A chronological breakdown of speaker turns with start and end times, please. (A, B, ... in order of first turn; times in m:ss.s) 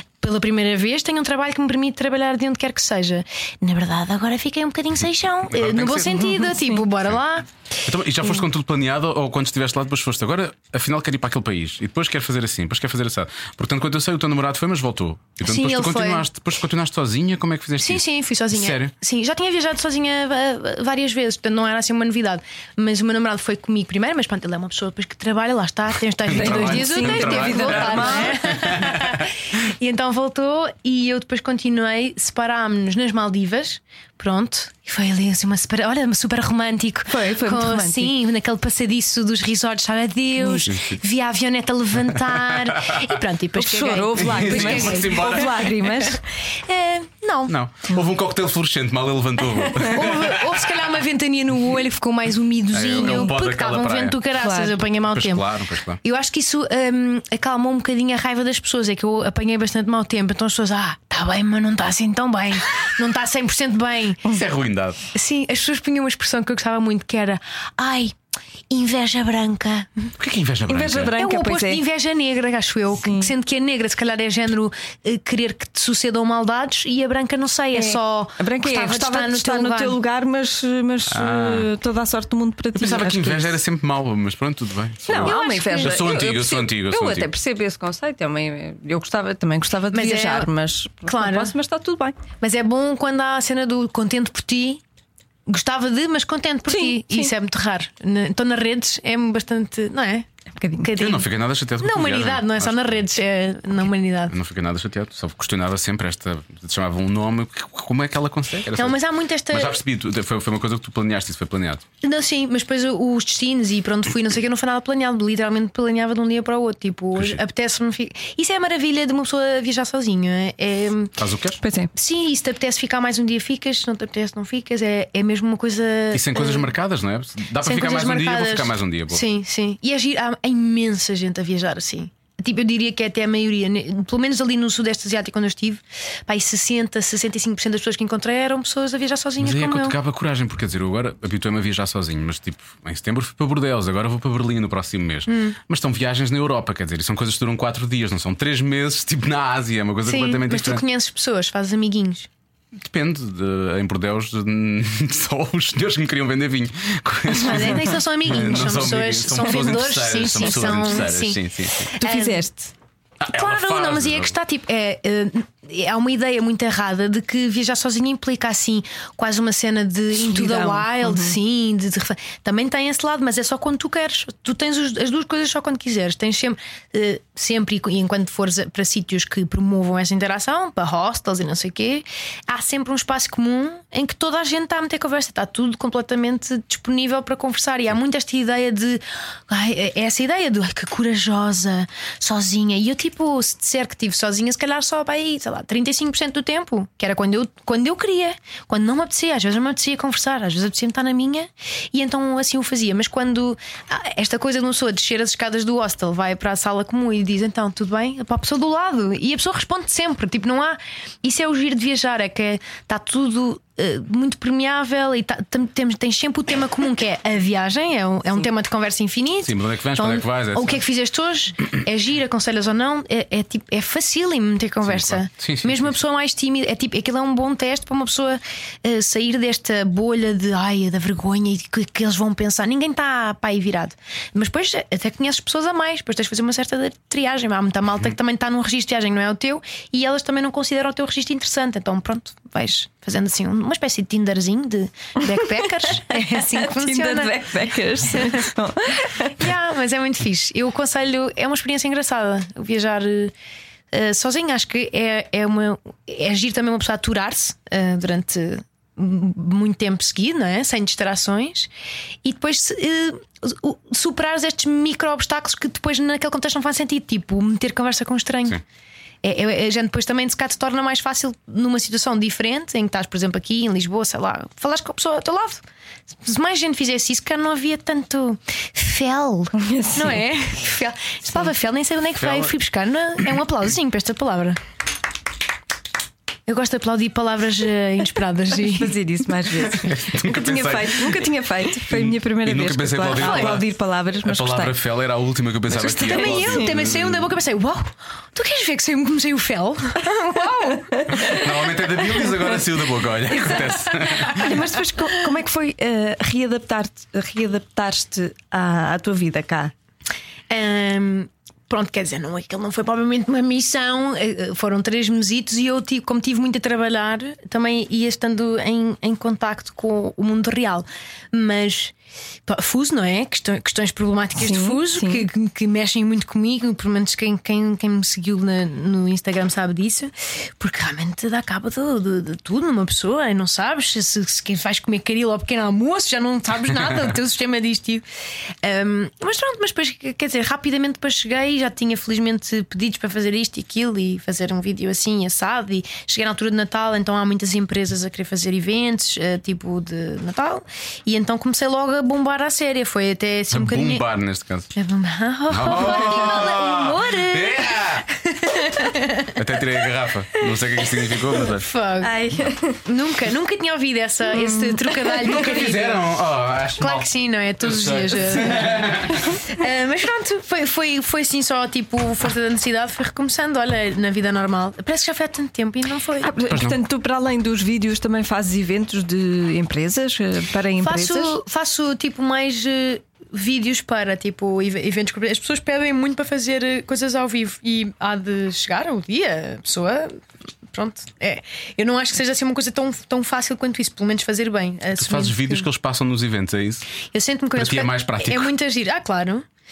0:00.2-0:07.5 A
0:05.5-0:06.4 B
0:06.4-0:06.8 C
0:07.8-0:18.9 B
0:15.4-0:16.2 A
0:17.8-0:47.5 A
0:26.2-0:29.3 B
0:26.3-0:28.4 C
0:37.1-0:38.1 C
0:40.4-0:40.7 C
0:40.7-0:41.0 B
0:42.1-0:43.0 B
0:43.6-0:46.2 C
0:44.2-0:45.7 B
0:47.5-0:50.8 B
0:49.8-0:55.5 A
0:52.7-0:54.2 B
0:54.4-0:54.8 C
0:55.1-0:56.0 B
0:56.0-1:04.3 A
1:04.3-1:05.0 B
1:05.1-1:08.1 A
1:08.7-1:10.1 A
1:10.2-1:11.1 B
1:10.7-1:11.8 C
1:11.2-1:20.0 A
1:13.0-1:13.3 C
1:17.7-1:23.6 C
1:21.1-1:21.7 B
1:22.7-1:27.3 B
1:25.1-1:32.2 C
1:25.1-1:26.0 A
1:29.9-1:30.5 A
1:31.0-1:31.5 A
1:32.4-1:34.8 A
1:35.5-1:40.3 A
1:36.7-1:37.3 C
1:40.5-1:40.9 C
1:40.8-1:41.3 A
1:41.0-1:43.0 B
1:41.8-1:44.3 A
1:44.3-1:49.0 B
1:48.7-1:49.8 A
1:49.5-1:51.8 B
1:52.0-2:01.1 A
1:57.2-1:57.4 B
2:01.2-2:01.6 B
2:01.6-2:01.9 C
2:01.9-2:06.7 A
2:06.1-2:09.2 B
2:07.6-2:20.0 A
2:19.4-2:30.8 B
2:25.3-2:25.6 A
2:30.0-2:32.3 A
2:32.7-2:41.9 B
2:37.3-2:41.4 A
2:40.5-2:40.9 C
2:41.9-2:42.4 A
2:42.0-2:42.7 C
2:43.2-2:44.3 B
2:43.3-4:07.4 A
2:50.2-2:51.4 C
3:39.4-3:40.8 B
3:44.8-3:46.0 B
4:05.4-4:09.4 C
4:08.1-4:08.5 A
4:09.4-4:13.3 A
4:13.9-4:21.7 A
4:22.2-4:28.6 A
4:29.2-4:35.6 A
4:36.2-4:44.6 A
4:39.5-4:40.2 C
4:42.2-4:42.5 B
4:46.5-4:48.9 A
4:48.6-4:54.8 C
4:49.7-4:51.3 B
4:51.9-4:53.7 B
4:53.2-4:53.6 A
4:54.2-4:57.3 B
4:55.7-5:00.8 A
4:55.9-4:56.7 C
5:00.1-5:01.5 C
5:01.2-5:04.6 B
5:03.5-5:03.7 C
5:04.2-5:09.7 C
5:10.5-5:21.9 A
5:22.5-5:38.0 A
5:24.4-5:25.2 C
5:38.6-5:54.0 A
5:53.5-5:54.7 B
5:54.7-5:59.4 A
5:55.5-5:58.1 B
5:59.3-6:01.7 B
6:00.8-6:02.2 A
6:02.0-6:02.8 C
6:02.8-6:06.0 A
6:04.5-6:05.3 C
6:05.3-6:07.1 B
6:06.8-6:16.3 A
6:07.6-6:09.4 B
6:16.2-6:21.4 C
6:16.5-6:16.8 B
6:20.8-6:30.2 A
6:30.7-6:35.7 A
6:35.0-6:36.8 B
6:37.1-6:39.4 A
6:37.5-6:38.5 B